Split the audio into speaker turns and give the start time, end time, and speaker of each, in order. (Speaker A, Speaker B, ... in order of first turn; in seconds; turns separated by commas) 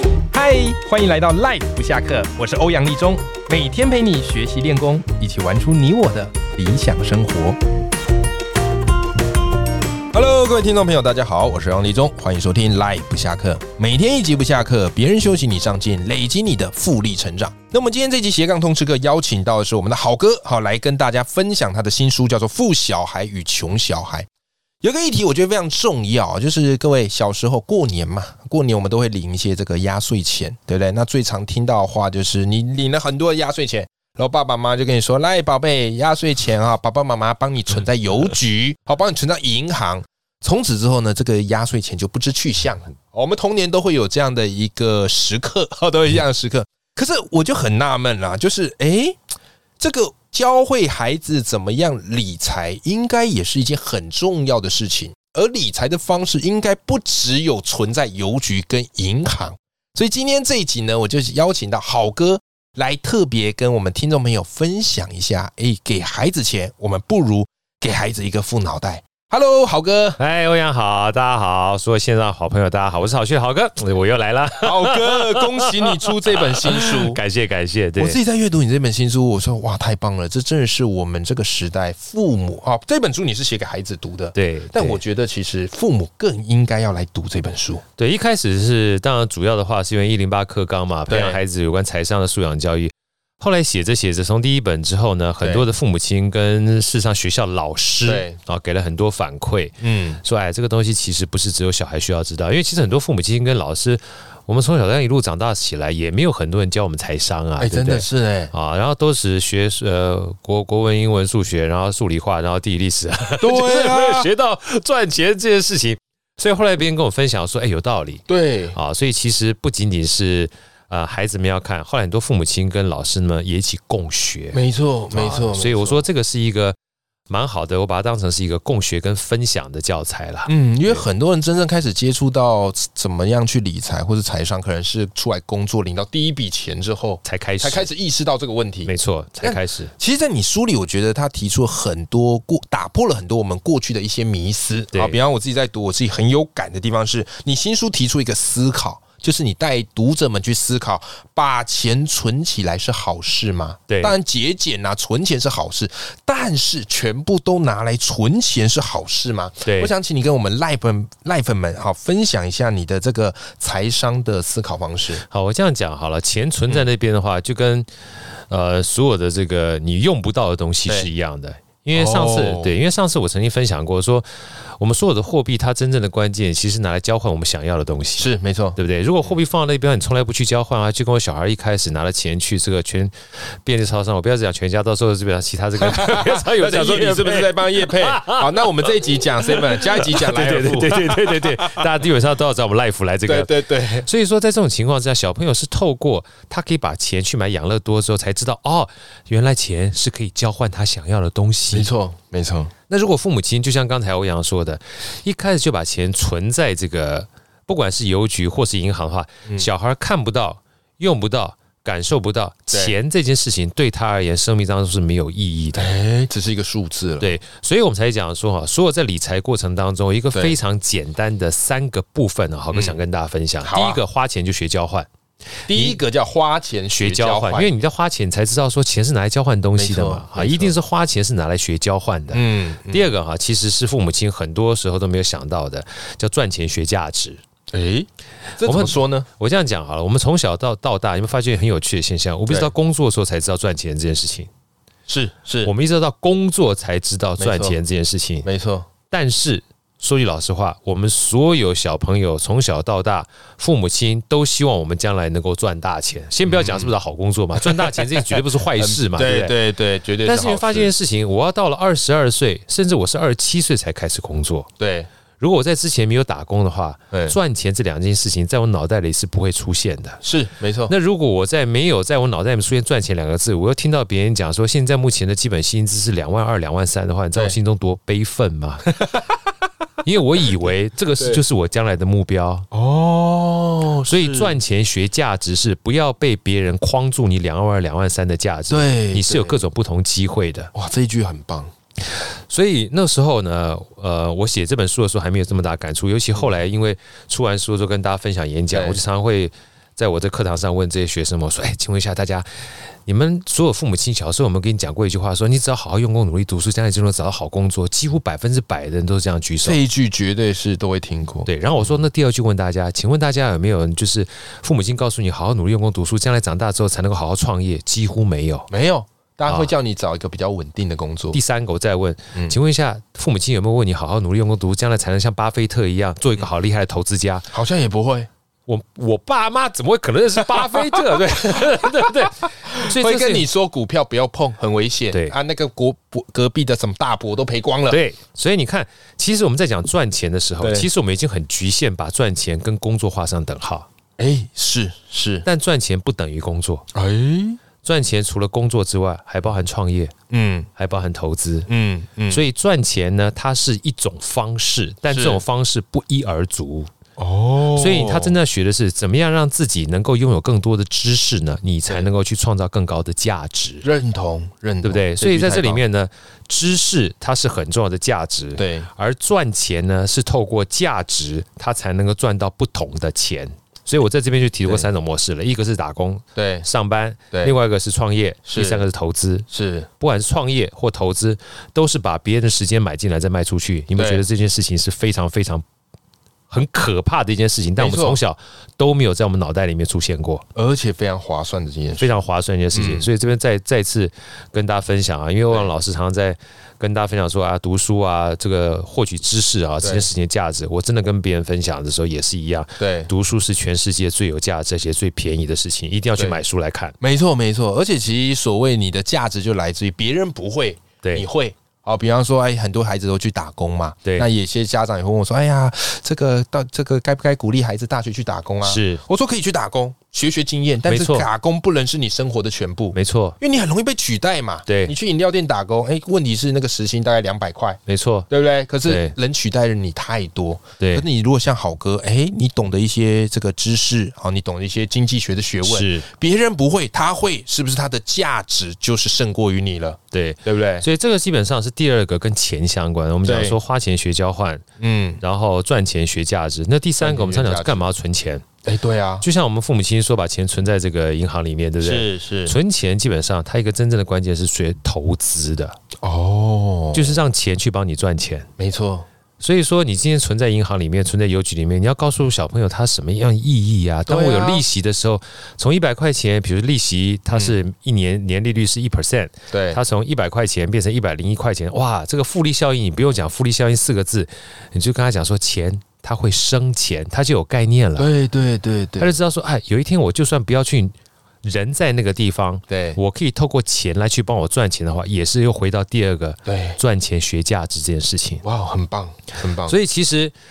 Speaker A: 0.3-7.6, Speaker A: 10.1-24.3, Speaker A: 24.8-49.2, Speaker A: 49.8-70.2, Speaker B: 70.2-76.0, Speaker A: 74.6-77.2, Speaker B: 76.6-78.2, Speaker A: 78.0-87.8, Speaker B: 84.3-85.0, Speaker B: 88.0-124.6, Speaker A: 91.1-91.4, Speaker A: 95.4-95.7, Speaker A: 98.1-98.4, Speaker A: 99.8-100.2, Speaker A: 107.6-108.5, Speaker A: 113.4-114.3, Speaker A: 118.3-118.8, Speaker A: 124.5-126.0, Speaker B: 125.1-126.8, Speaker B: 127.3-131.0, Speaker A: 130.5-138.9, Speaker B: 137.2-137.9, Speaker B: 138.9-139.9, Speaker A: 139.4-165.2, Speaker B: 144.9-145.2, Speaker B: 153.9-154.2, Speaker B: 159.7-159.9, Speaker B: 165.2-167.9, Speaker B: 168.5-174.2, Speaker A: 171.9-172.7, Speaker B: 174.8-183.1, Speaker A: 178.2-178.8, Speaker B: 183.7-188.5, Speaker A: 185.8-191.8, Speaker B: 189.5-201.9, Speaker A: 193.3-194.1, Speaker A: 201.7-202.7, Speaker B: 202.9-215.9, Speaker A: 212.7-212.9, Speaker A: 215.8-217.3, Speaker B: 217.2-225.1, Speaker A: 222.7-223.0, Speaker A: 223.6-224.0, Speaker A: 225.7-227.7, Speaker B: 225.7-226.0, Speaker B: 226.9-237.4, Speaker A: 229.8-230.8, Speaker A: 232.3-233.1, Speaker A: 237.7-239.3, Speaker B: 238.6-244.5, Speaker A: 245.1-245.7, Speaker B: 245.6-248.5, Speaker A: 247.4-247.8, Speaker A: 248.4-248.9, Speaker B: 249.1-259.6, Speaker A: 256.4-256.9, Speaker A: 257.7-260.9, Speaker B: 260.2-264.7, Speaker A: 264.8-265.1, Speaker B: 265.4-270.2, Speaker A: 267.1-267.4, Speaker A: 270.2-270.9, Speaker B: 270.9-278.9, Speaker A: 278.9-279.2, Speaker B: 280.0-282.7, Speaker A: 282.7-284.6, Speaker B: 284.1-290.7, Speaker A: 288.7-289.6, Speaker A: 290.7-291.7, Speaker B: 292.5-302.5, Speaker A: 298.7-299.0, Speaker B: 303.1-309.8, Speaker A: 309.6-312.0, Speaker B: 311.5-318.7, Speaker A: 318.7-321.4, Speaker B: 319.5-319.7, Speaker B: 321.3-327.5, Speaker A: 327.5-328.3, Speaker B: 328.7-333.5, Speaker A: 332.6-338.0, Speaker B: 337.9-343.9, Speaker A: 340.6-340.9, Speaker A: 344.2-345.5, Speaker B: 345.4-346.9, Speaker A: 346.9-347.6, Speaker B: 347.8-350.1, Speaker A: 350.3-350.7, Speaker B: 350.8-351.7, Speaker A: 351.7-352.4, Speaker B: 352.3-356.9, Speaker A: 355.1-355.4, Speaker A: 357.2-358.4, Speaker B: 357.7-363.8, Speaker A: 363.8-365.8, Speaker B: 364.8-379.5, Speaker A: 368.6-368.9, Speaker A: 376.4-376.7, Speaker A: 378.5-378.9, Speaker A: 379.5-379.9, Speaker B: 380.0-385.6, Speaker A: 384.0-384.2, Speaker B: 386.5-390.4, Speaker A: 387.8-388.2, Speaker A: 390.6-392.1, Speaker B: 392.0-406.9, Speaker A: 392.7-393.1, Speaker A: 399.8-400.1, Speaker A: 402.8-403.1, Speaker A: 407.0-440.9, Speaker B: 418.6-419.0, Speaker B: 420.9-421.3, Speaker B: 422.9-423.4, Speaker B: 424.7-424.9, Speaker B: 427.9-428.3, Speaker B: 428.8-429.1, Speaker B: 435.6-436.1, Speaker B: 440.1-444.6, Speaker A: 443.2-443.6, Speaker A: 444.8-445.2, Speaker B: 445.2-448.4, Speaker A: 447.0-447.9, Speaker A: 448.6-449.3, Speaker B: 449.2-455.8, Speaker A: 451.8-452.6, Speaker A: 456.0-457.2, Speaker B: 456.9-458.5, Speaker A: 458.6-459.1, Speaker B: 459.4-478.1, Speaker A: 464.1-464.6, Speaker A: 469.5-469.8, Speaker A: 478.0-479.1, Speaker B: 479.0-488.4, Speaker A: 482.7-483.0, Speaker A: 486.5-486.8, Speaker A: 488.4-489.8, Speaker B: 489.6-490.3